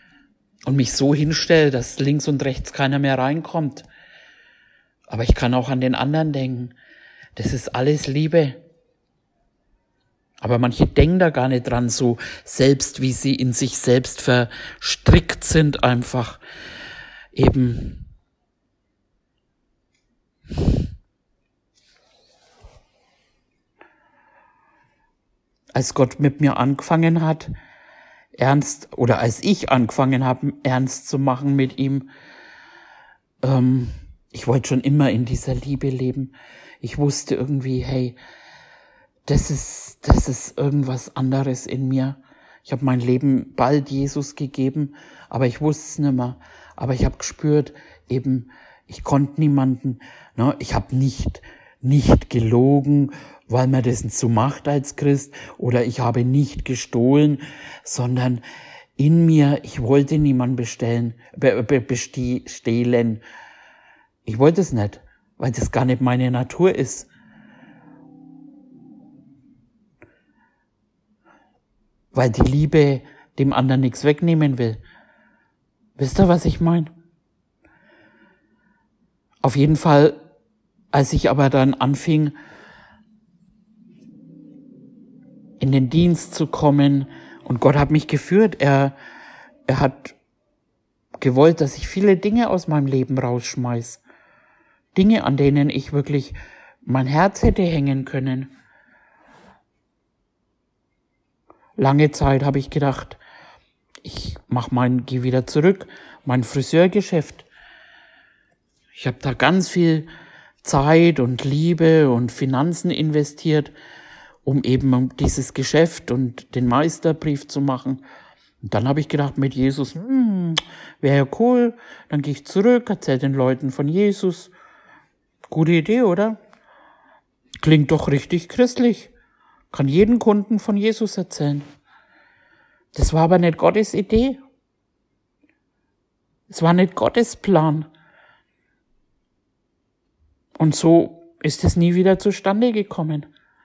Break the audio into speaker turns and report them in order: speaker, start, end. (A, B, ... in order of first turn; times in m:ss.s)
0:00.7-0:03.9 A
0:05.1-0:06.7 A
0:07.4-0:08.6 A
0:10.4-0:16.4 A
0:17.3-0:18.0 A
0:25.8-0:27.5 A
0:28.4-0:32.1 A
0:33.4-0:38.2 A
0:39.3-0:58.4 A
0:59.0-1:03.2 A
1:04.2-1:07.1 A
1:12.1-1:14.8 A
1:16.0-1:16.9 A
1:19.4-1:20.2 A
1:20.9-1:22.3 A
1:25.6-1:28.9 A
1:29.7-1:30.2 A
1:31.2-1:34.0 A
1:35.0-1:38.5 A
1:41.8-1:43.2 A
1:44.0-1:47.5 A
1:49.0-1:50.1 A
1:50.6-1:53.7 A
1:54.4-1:58.0 A
1:58.6-2:04.5 A
2:05.5-2:06.4 A
2:07.6-2:09.1 A
2:09.7-2:11.7 A
2:12.9-2:14.4 A
2:16.5-2:17.9 A
2:20.6-2:23.3 A